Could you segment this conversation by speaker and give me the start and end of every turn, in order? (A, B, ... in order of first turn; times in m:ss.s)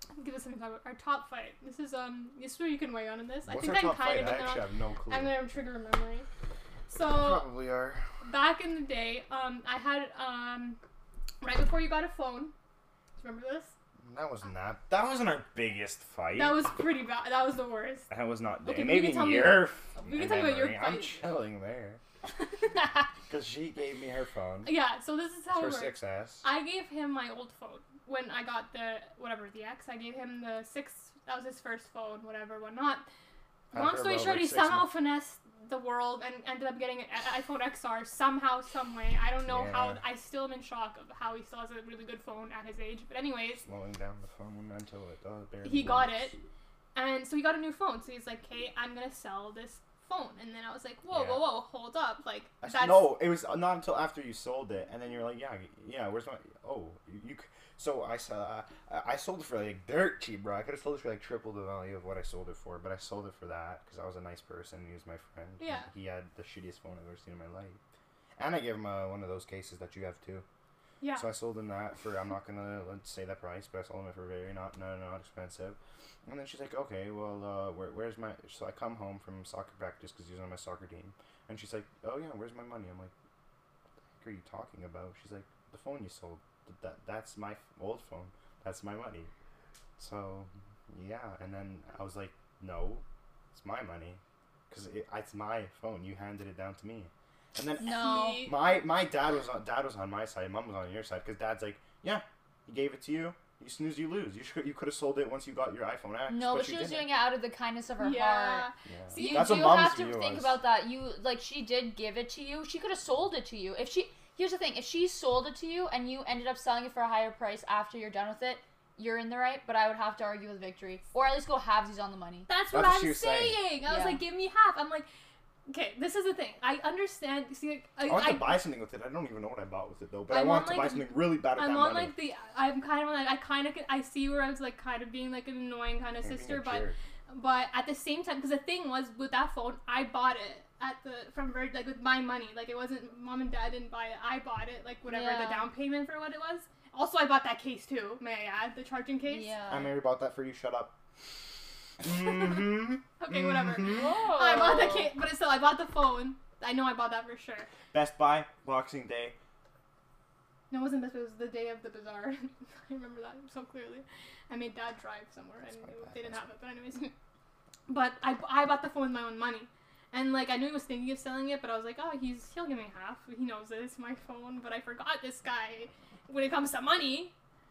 0:00.1-0:06.3 A
0:03.5-0:05.4 B
0:06.9-0:07.5 A
0:07.0-0:08.0 B
0:08.2-0:10.8 A
0:11.4-0:12.5 A
0:13.2-0:13.7 A
0:14.0-0:16.6 B
0:16.4-0:18.1 A
0:18.1-0:22.0 B
0:18.6-0:21.2 A
0:23.3-0:24.7 B
0:24.6-0:33.0 A
0:25.5-0:26.4 B
0:33.7-0:34.9 B
0:33.7-0:43.6 A
0:39.4-0:40.0 B
0:43.6-0:46.3 B
0:45.6-0:46.3 A
0:46.9-0:53.1 A
0:51.1-0:51.4 B
0:52.6-1:07.8 B
1:05.6-1:05.9 A
1:08.4-1:10.4 B
1:11.0-1:11.2 A
1:11.1-1:23.1 B
1:24.1-1:29.3 B
1:30.0-1:47.1 B
1:37.8-1:38.5 C
1:37.8-1:38.5 A
1:46.3-2:02.5 C
1:48.0-1:49.9 A
1:48.9-1:50.6 B
2:02.5-2:05.1 A
2:02.7-2:03.6 B
2:03.9-2:04.2 C
2:05.7-2:08.6 A
2:08.0-2:12.1 B
2:10.3-2:29.5 A
2:16.2-2:16.9 B
2:25.1-2:25.7 C
2:29.2-2:30.0 C
2:29.7-2:30.9 B
2:32.0-2:34.1 B
2:33.2-2:37.7 A
2:33.8-2:35.1 C
2:37.9-2:39.3 B
2:40.7-2:47.1 A
2:45.8-2:46.4 B
2:47.9-2:57.3 A